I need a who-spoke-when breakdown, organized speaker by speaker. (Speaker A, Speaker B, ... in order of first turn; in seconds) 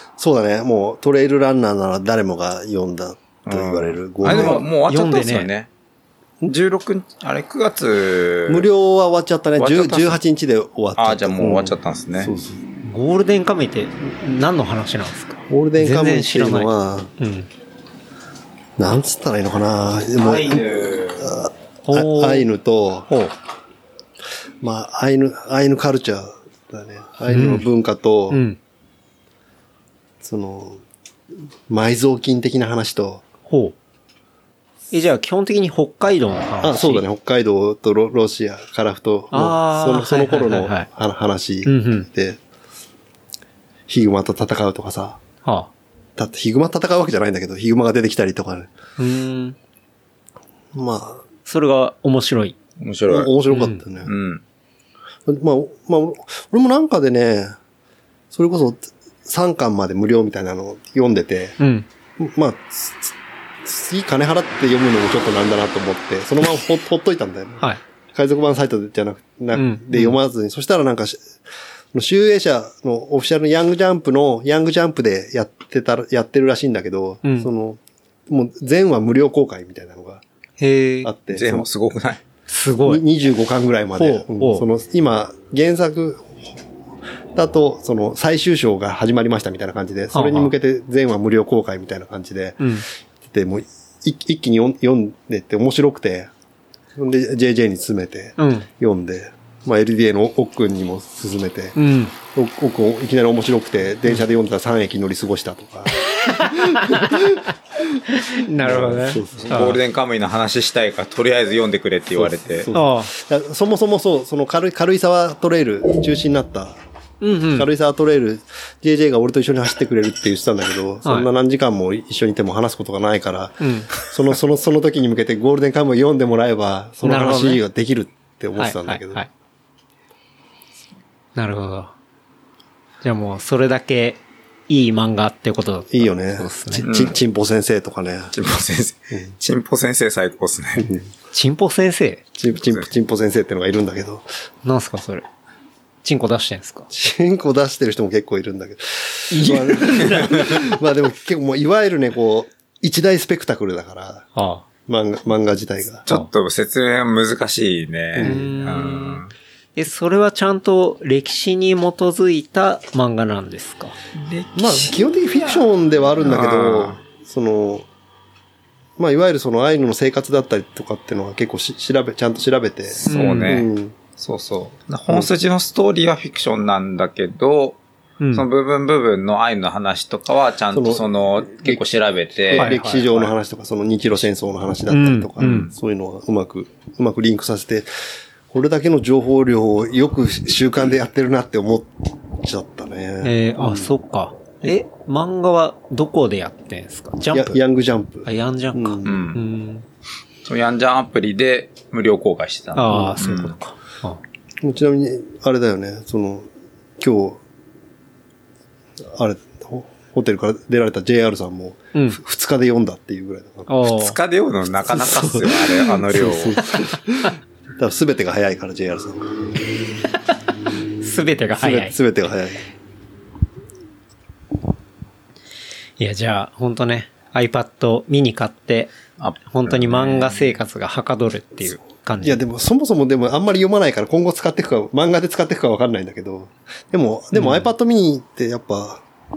Speaker A: 0.2-4.7, 8.5-12.6, 15.5-17.1, 18.8-23.1, 24.6-28.4, 30.2-30.8, 31.7-33.2, 36.6-42.4, 43.9-45.2, 46.1-48.7, 50.7-51.2, 53.1-54.1, 55.2-57.6, 58.3-61.6, 62.2-71.3, 71.9-80.2, 81.0-81.7, 82.8-86.4, 87.3-92.7, 93.2-96.3, 97.0-107.4, 108.6-109.7, 112.2-116.8, 117.5-129.2, 135.9-138.3, 140.8-141.1, 142.4-144.3, 146.9-154.3, 154.9-156.1, 158.1-158.4, 164.5-167.9, 169.0-173.9, 180.7-181.9, 182.5-187.9, 188.5-193.9, 197.3-199.3, 202.9-203.2, 204.6-206.5, 207.0-207.4, 209.0-213.7, 214.9-219.4, 221.5-222.7, 232.2-239.0
Speaker B: 3.5-5.7, 6.5-8.7, 9.6-10.2, 10.9-12.3, 20.2-21.3, 52.8-53.3, 54.0-54.4, 81.3-82.2, 109.5-112.7, 136.8-137.2, 138.3-140.9, 156.1-159.3, 164.2-165.1, 166.2-167.0, 173.0-177.8, 178.3-183.3, 185.4-185.7, 199.0-199.4, 200.4-203.6, 213.9-216.6, 229.2-230.4
Speaker C: 4.2-5.5, 12.8-17.5, 21.8-22.5, 23.1-23.3, 27.3-27.6, 28.3-28.6, 33.5-33.7, 34.9-37.0, 39.3-40.9, 41.6-42.1, 45.4-45.7, 49.0-49.5, 51.5-52.5, 53.5-53.8, 61.6-61.9, 69.5-70.2, 77.2-77.5, 80.6-81.1, 82.5-83.0, 84.0-84.6, 90.1-90.5, 92.6-92.8, 98.4-98.7, 101.8-102.1, 106.1-107.3, 108.1-109.8, 112.7-113.1, 117.2-117.7, 123.6-123.9, 127.0-127.6, 128.6-129.3, 131.3-131.9, 133.0-136.8, 141.3-142.2, 144.6-145.2, 146.0-146.9, 149.3-150.5, 154.3-154.6, 158.2-159.2, 159.8-163.9, 173.1-173.6, 178.2-178.4, 182.5-183.1, 184.9-185.7, 193.2-197.6, 198.2-199.8, 202.7-204.2, 211.9-212.2, 213.7-214.2, 221.0-221.9, 226.0-228.9, 229.4-232.4, 237.3-237.7